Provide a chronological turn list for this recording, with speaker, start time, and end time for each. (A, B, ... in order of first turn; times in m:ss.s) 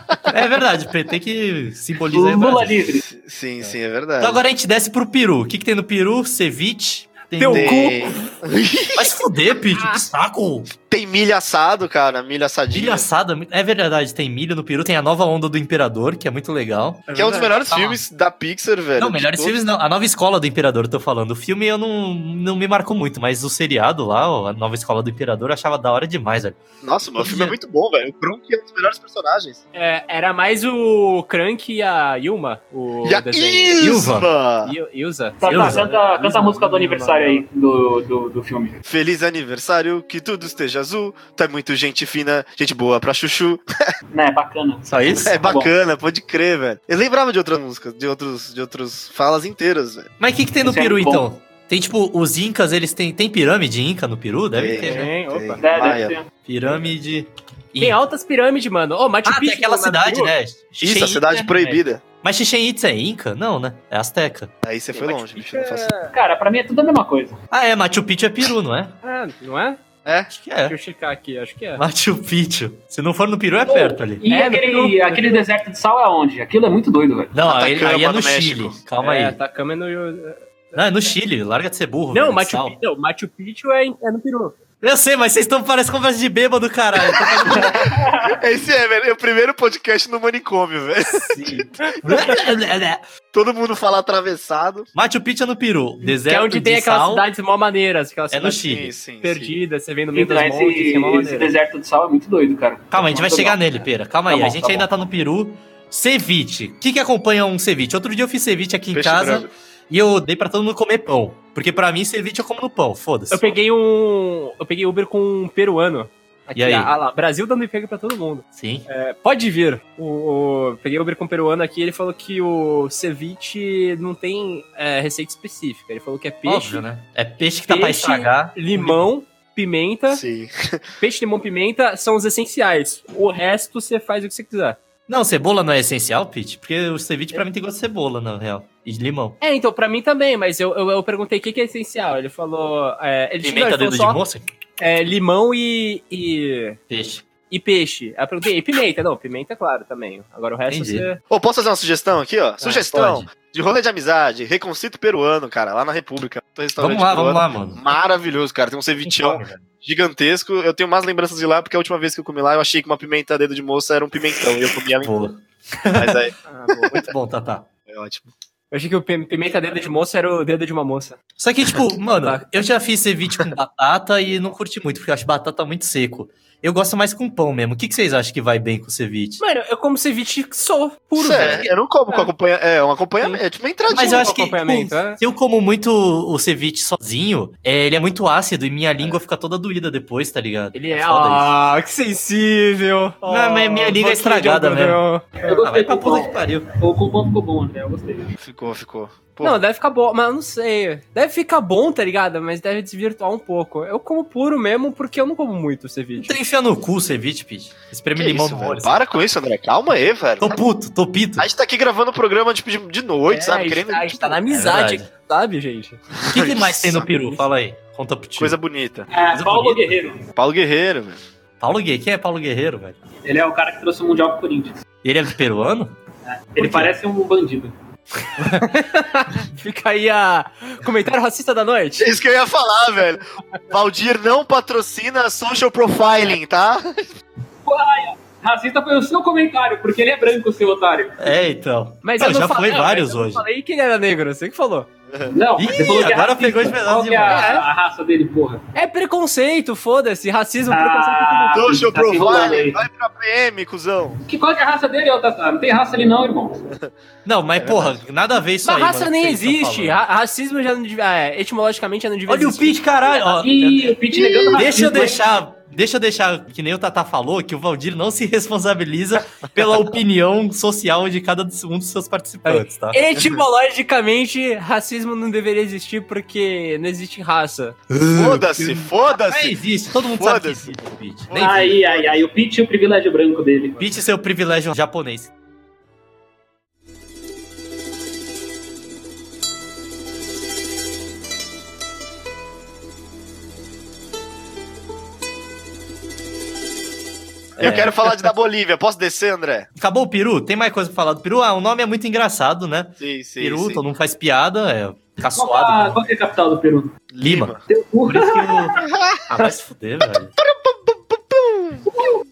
0:00.3-0:02.7 A
0:02.1-0:03.0 B
0:03.0-0:04.4 C
0:04.2-0:07.8 A
0:07.4-0:08.3 D
0:07.5-0:09.2 C
0:09.0-0:10.7 A
0:10.8-0:13.1 C
0:12.7-0:17.1 A
0:17.1-0:17.8 D
0:17.1-0:19.6 C
0:19.0-0:26.6 A
0:26.8-0:29.6 C
0:27.2-0:27.6 A
0:29.7-0:33.8 D
0:33.0-0:34.8 C
0:33.8-0:34.3 A
0:34.6-0:37.4 D
0:35.4-0:38.8 B
0:35.4-0:35.9 A
0:38.8-0:43.9 C
0:44.1-0:45.7 B
0:44.8-0:45.3 A
0:45.1-0:50.1 C
0:50.2-0:55.1 A
0:50.6-0:51.2 B
0:54.5-0:56.2 C
0:54.8-0:55.6 D
0:55.6-0:56.3 B
0:56.4-0:58.0 A
0:57.8-1:00.3 D
0:59.2-1:01.3 A
1:00.8-1:02.0 C
1:01.3-1:01.8 B
1:02.2-1:04.5 A
1:04.6-1:05.9 C
1:04.9-1:06.1 D
1:06.1-1:07.4 B
1:07.5-1:08.9 A
1:09.0-1:09.8 D
1:10.0-1:10.3 C
1:10.3-1:10.8 A
1:10.7-1:11.8 D
1:11.8-1:14.2 A
1:13.7-1:17.3 B
1:14.3-1:15.5 D
1:17.3-1:19.4 A
1:17.4-1:18.8 C
1:19.0-1:20.7 D
1:20.8-1:22.8 A
1:22.1-1:24.6 D
1:24.8-1:27.8 A
1:27.3-1:32.4 C
1:27.5-1:28.4 B
1:31.3-1:32.0 D
1:32.0-1:33.0 A
1:33.3-1:34.9 C
1:35.0-1:37.2 A
1:36.0-1:41.6 D
1:38.3-1:38.9 A
1:38.6-1:39.5 C
1:40.2-1:44.9 B
1:42.9-1:53.6 A
1:48.9-1:49.5 C
1:53.3-2:06.8 D
1:56.6-1:56.9 A
1:58.6-1:58.9 A
2:06.5-2:09.1 A
2:07.7-2:10.2 D
2:10.1-2:10.8 C
2:11.0-2:14.8 D
2:15.1-2:19.4 A
2:19.4-2:24.2 D
2:23.4-2:24.4 A
2:24.8-2:26.8 D
2:26.9-2:27.2 A
2:27.5-2:31.2 D
2:30.7-2:31.1 A
2:31.3-2:45.3 C
2:32.6-2:33.3 A
2:36.8-2:37.8 A
2:39.0-2:39.6 A
2:45.0-2:47.7 A
2:46.0-2:46.3 C
2:46.5-2:47.0 D
2:47.9-2:48.3 C
2:48.7-2:51.2 D
2:51.4-2:59.4 A
2:59.4-3:02.3 D
3:01.2-3:04.3 C
3:03.2-3:05.2 D
3:03.9-3:11.5 A
3:10.7-3:15.6 D
3:13.3-3:16.7 A
3:15.4-3:18.3 B
3:18.4-3:19.6 C
3:19.4-3:26.4 D
3:26.2-3:29.0 A
3:28.2-3:30.6 C
3:30.4-3:31.5 A
3:31.4-3:34.4 C
3:33.3-3:36.1 D
3:34.5-3:35.1 A
3:36.2-3:37.1 C
3:36.2-3:38.6 A
3:37.1-3:37.4 D
3:38.4-3:39.1 C
3:39.1-3:40.2 B
3:39.3-3:40.0 A
3:40.4-3:41.2 C
3:41.6-3:43.0 A
3:43.2-3:44.8 B
3:45.0-3:46.0 A
3:46.2-3:47.7 B
3:46.6-3:46.9 A
3:48.4-3:48.6 A
3:48.6-3:52.1 D
3:52.0-3:57.1 C
3:57.6-4:01.3 B
4:01.2-4:03.4 A
4:02.0-4:04.9 D
4:05.3-4:08.6 B
4:05.6-4:07.5 A
4:07.3-4:07.7 D
4:08.8-4:11.8 D
4:10.7-4:12.8 B
4:11.5-4:14.2 C
4:14.2-4:16.6 B
4:17.2-4:20.0 A
4:17.6-4:18.0 C
4:18.6-4:22.8 D
4:22.3-4:33.0 A
4:23.1-4:25.2 B
4:32.5-4:37.8 D
4:37.9-4:41.8 A
4:38.1-4:40.8 C
4:41.3-4:42.2 C
4:41.3-4:43.8 B
4:43.8-4:45.3 A
4:57.6-4:58.0 A
4:57.6-4:59.7 C
4:59.8-5:06.1 A
5:03.0-5:03.8 C
5:05.4-5:06.9 B
5:07.1-5:07.6 C
5:07.2-5:07.6 A
5:07.7-5:08.6 B
5:08.1-5:10.3 A
5:08.8-5:09.4 C
5:10.4-5:11.9 C
5:11.9-5:12.2 B